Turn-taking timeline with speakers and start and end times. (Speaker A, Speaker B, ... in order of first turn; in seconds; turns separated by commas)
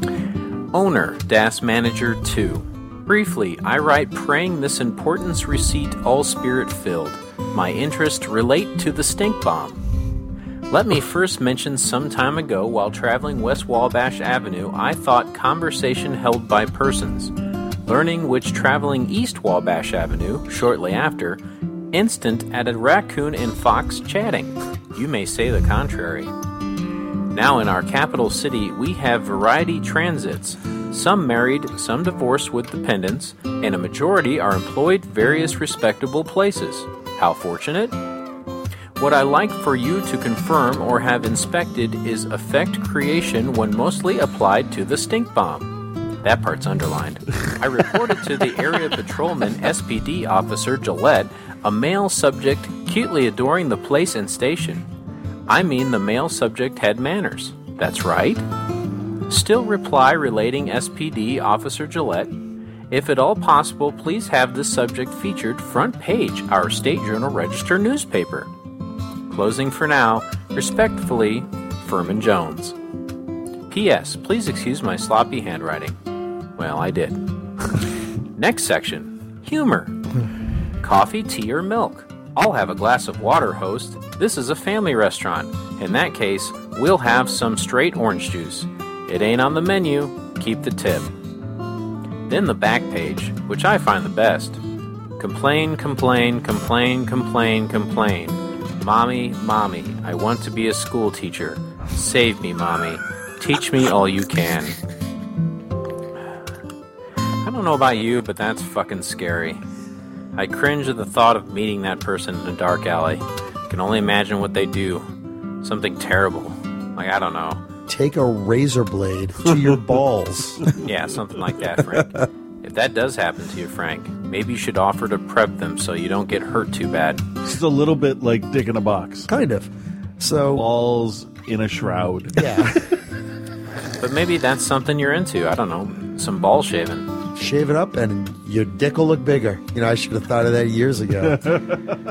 Speaker A: 0.7-9.8, Speaker A: 10.7-17.3, Speaker A: 17.9-21.4, Speaker A: 21.9-26.3, Speaker A: 27.3-37.9, Speaker A: 39.0-54.9, Speaker A: 55.5-58.4, Speaker A: 59.3-62.3, Speaker A: 62.9-68.5, Speaker A: 69.3-72.7, Speaker A: 73.7-76.0, Speaker A: 76.6-77.2, Speaker A: 78.3-79.9, Speaker A: 80.8-91.1, Speaker A: 92.3-94.6, Speaker A: 95.2-104.7, Speaker A: 107.4-109.6, Speaker A: 110.3-115.1, Speaker A: 115.6-117.6, Speaker B: 117.9-120.7, Speaker A: 120.8-127.2, Speaker C: 127.4-129.3, Speaker B: 129.3-130.6, Speaker C: 130.5-132.7, Speaker B: 132.3-132.8, Speaker A: 134.0-137.1, Speaker B: 137.3-141.4, Speaker C: 141.3-141.8